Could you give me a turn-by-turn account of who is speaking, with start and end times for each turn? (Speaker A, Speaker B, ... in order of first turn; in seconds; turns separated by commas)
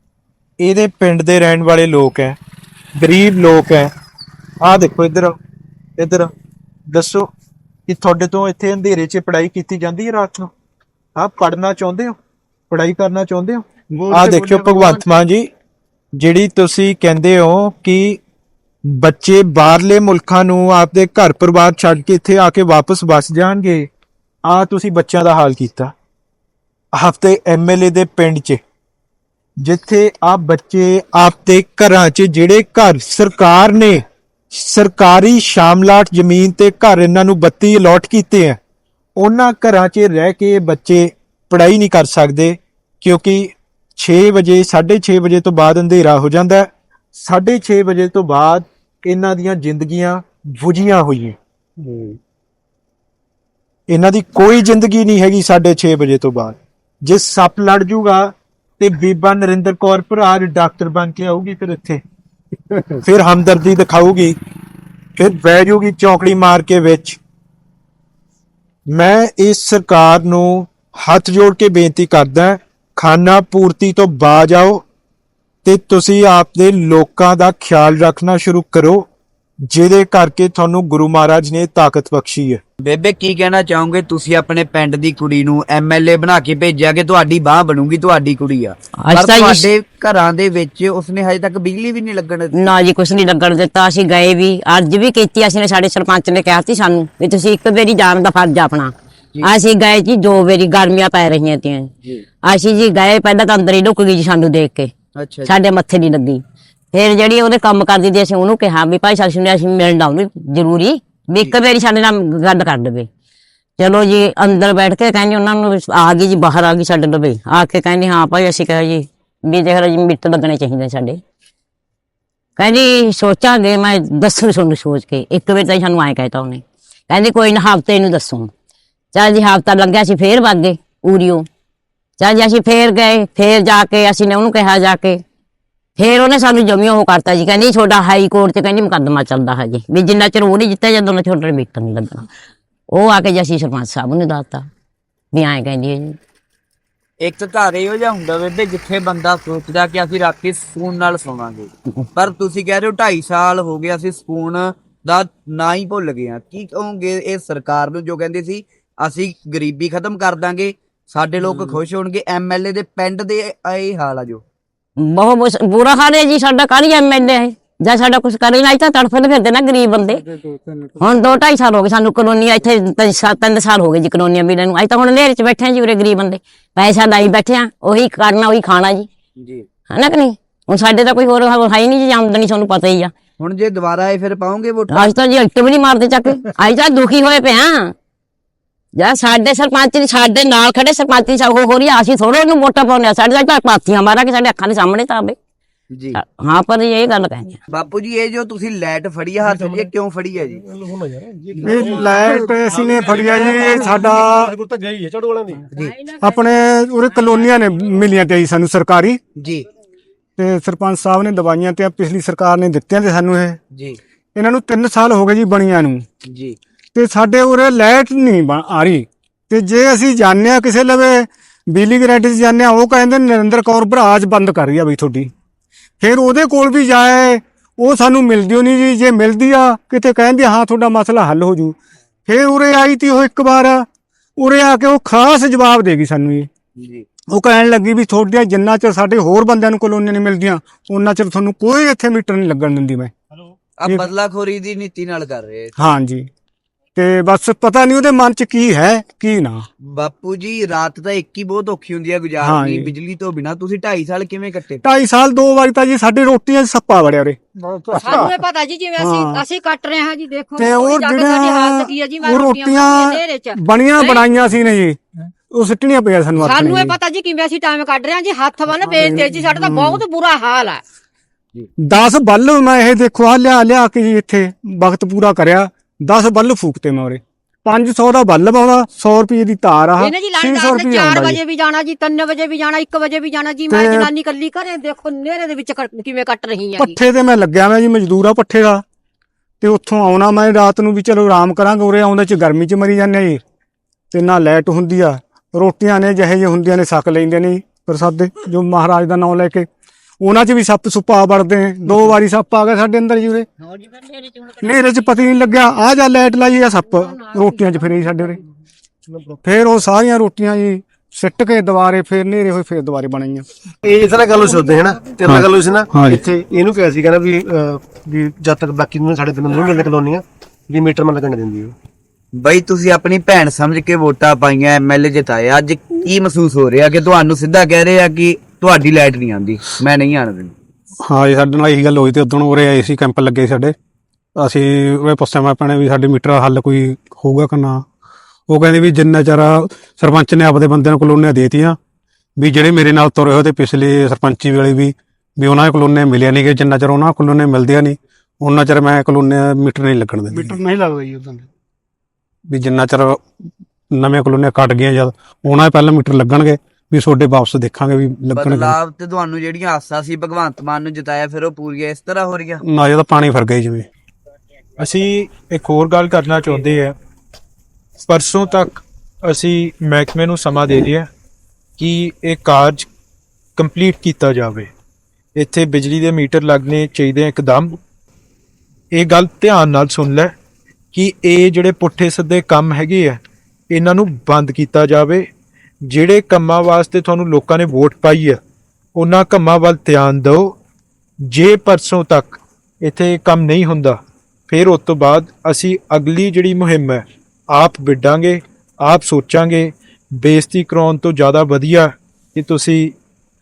Speaker A: 0.6-2.4, Speaker A: 3.0-3.9, Speaker A: 4.6-5.3, Speaker A: 6.0-6.3, Speaker A: 6.9-7.3, Speaker A: 7.9-10.5, Speaker A: 11.2-12.2, Speaker A: 12.7-15.5, Speaker A: 16.1-18.2, Speaker A: 18.9-23.9, Speaker A: 24.5-25.9, Speaker A: 26.9-28.6, Speaker A: 29.6-38.6, Speaker A: 39.2-51.4, Speaker A: 53.9-62.0, Speaker A: 63.0-64.3, Speaker A: 65.2-67.2, Speaker A: 68.9-74.8, Speaker A: 75.6-79.1, Speaker A: 79.7-82.6, Speaker B: 82.8-92.7, Speaker C: 89.0-89.6, Speaker C: 92.5-101.9, Speaker C: 102.4-104.9, Speaker B: 105.2-105.5, Speaker C: 105.5-106.4, Speaker C: 106.9-113.1, Speaker C: 113.8-121.2, Speaker C: 122.6-128.5, Speaker C: 129.1-131.4, Speaker C: 132.2-135.2, Speaker C: 136.0-142.2, Speaker C: 142.9-144.7, Speaker C: 145.3-146.2, Speaker B: 147.2-164.4, Speaker C: 165.0-170.2, Speaker C: 171.0-179.1, Speaker B: 179.4-179.7, Speaker C: 179.9-183.1, Speaker B: 183.4-185.1, Speaker C: 184.9-187.9, Speaker C: 188.9-195.3, Speaker B: 195.9-196.2, Speaker C: 196.1-197.6, Speaker B: 197.7-200.6, Speaker D: 199.4-199.9, Speaker D: 200.6-205.6, Speaker E: 201.6-204.5, Speaker B: 205.7-206.0, Speaker E: 206.1-209.2, Speaker B: 209.4-209.7, Speaker E: 210.4-213.6, Speaker E: 214.3-216.0, Speaker B: 216.3-216.6, Speaker E: 216.9-225.3, Speaker E: 226.0-231.8, Speaker E: 232.3-233.8, Speaker E: 234.4-236.5, Speaker B: 236.8-237.0, Speaker E: 237.3-243.1, Speaker B: 243.8-245.7, Speaker E: 245.8-246.3, Speaker E: 246.9-249.6, Speaker B: 249.9-254.8, Speaker E: 252.4-252.9, Speaker E: 254.8-257.4, Speaker E: 257.9-258.3, Speaker F: 258.0-264.4, Speaker E: 259.0-259.4, Speaker E: 260.6-265.0, Speaker E: 265.5-267.0, Speaker F: 266.4-270.8, Speaker E: 268.8-270.0, Speaker E: 271.8-281.4, Speaker F: 280.0-287.0, Speaker E: 283.7-284.1, Speaker E: 286.8-288.8, Speaker E: 289.6-293.4, Speaker E: 294.1-299.7, Speaker E: 300.2-303.5, Speaker E: 304.5-308.4, Speaker E: 309.4-313.4, Speaker D: 313.8-321.7, Speaker B: 322.4-330.5, Speaker G: 331.0-333.7, Speaker G: 334.4-337.8, Speaker G: 338.5-341.8, Speaker G: 342.4-350.6, Speaker G: 352.5-353.2, Speaker G: 353.9-358.7, Speaker B: 358.3-362.6, Speaker G: 362.6-363.9, Speaker A: 364.8-366.9, Speaker A: 368.1-371.1, Speaker A: 371.8-372.9, Speaker A: 373.6-374.7, Speaker A: 375.4-377.8, Speaker A: 378.9-380.3, Speaker A: 380.9-385.2, Speaker A: 385.8-388.4, Speaker A: 388.9-390.6, Speaker A: 391.2-394.0, Speaker A: 394.5-402.9